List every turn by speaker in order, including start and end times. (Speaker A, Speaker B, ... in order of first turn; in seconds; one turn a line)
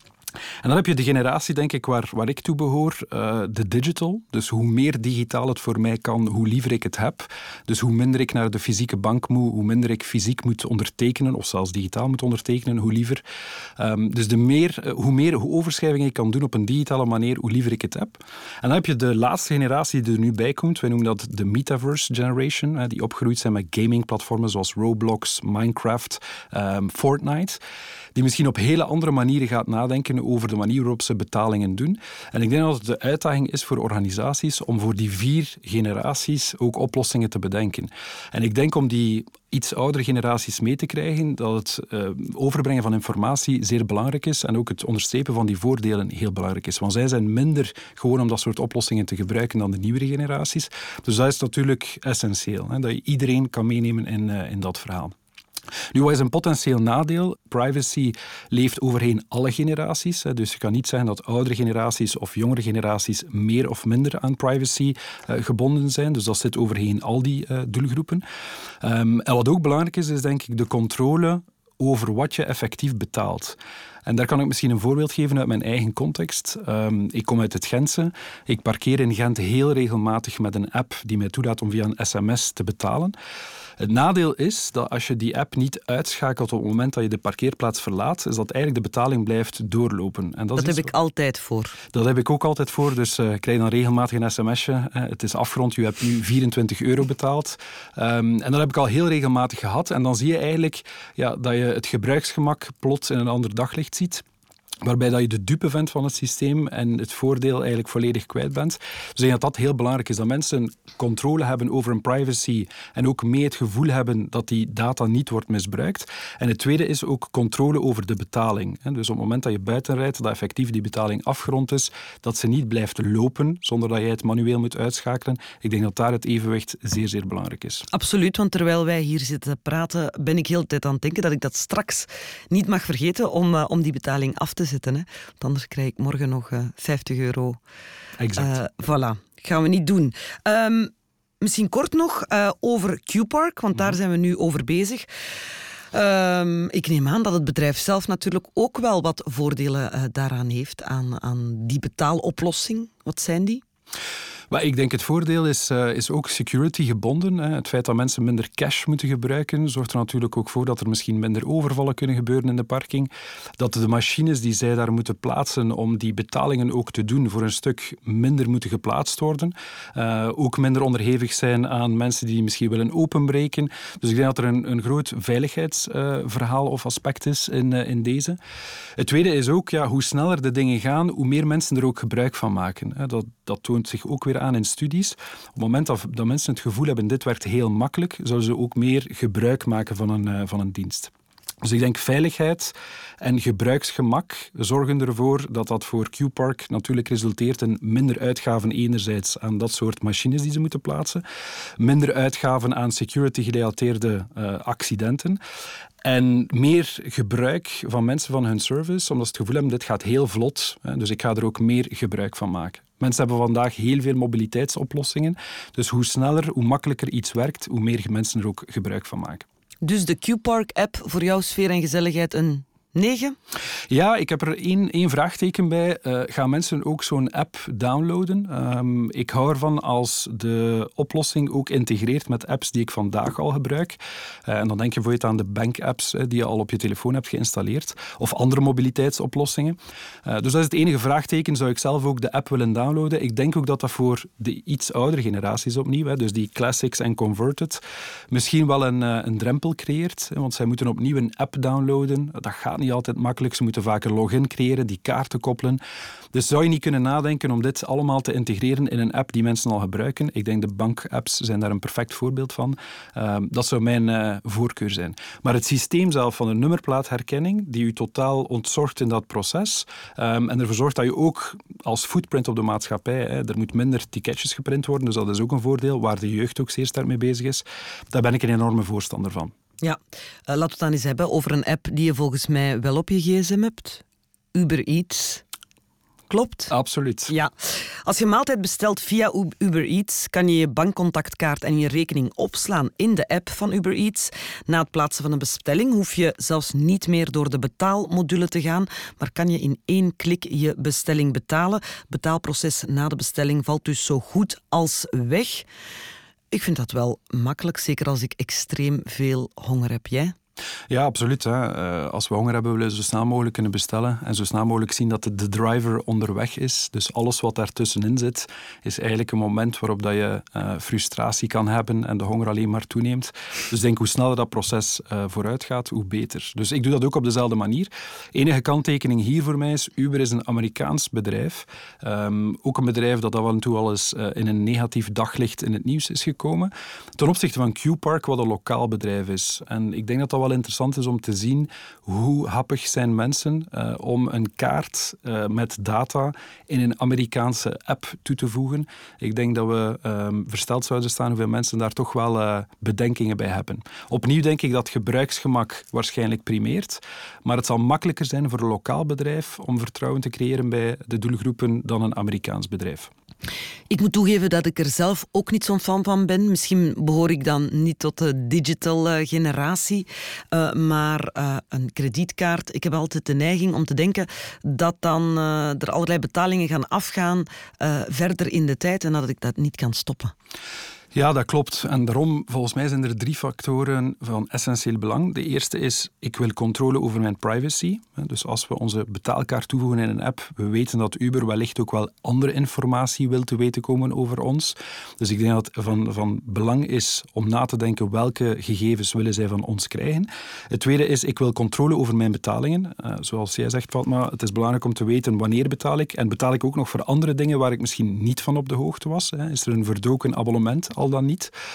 Speaker A: 0.6-13.2
Speaker A: 13.8-27.6
Speaker A: 28.1-55.1
Speaker A: 55.9-68.2
Speaker A: 68.8-83.2
Speaker A: 83.8-90.9
Speaker B: 90.6-91.8
Speaker A: 91.9-104.2
Speaker A: 104.8-127.8
Speaker B: 127.9-137.6
Speaker A: 138.2-138.6
Speaker B: 138.4-145.1
Speaker B: 145.9-153.6
Speaker A: 154.5-178.4
Speaker A: 179.0-191.1
Speaker A: 191.6-201.2
Speaker A: 201.8-205.4
Speaker A: 206.0-219.4
Speaker B: 219.8-223.4
Speaker A: 223.9-247.8
Speaker A: 248.3-255.8
Speaker A: 256.3-279.5
Speaker B: 279.8-284.0
Speaker B: 284.5-285.4
Speaker B: 286.3-286.7
Speaker A: 286.7-287.3
Speaker B: 287.3-305.7
Speaker B: 306.5-310.3
Speaker A: 310.9-363.1
Speaker B: 363.9-380.3
Speaker A: 381.1-411.5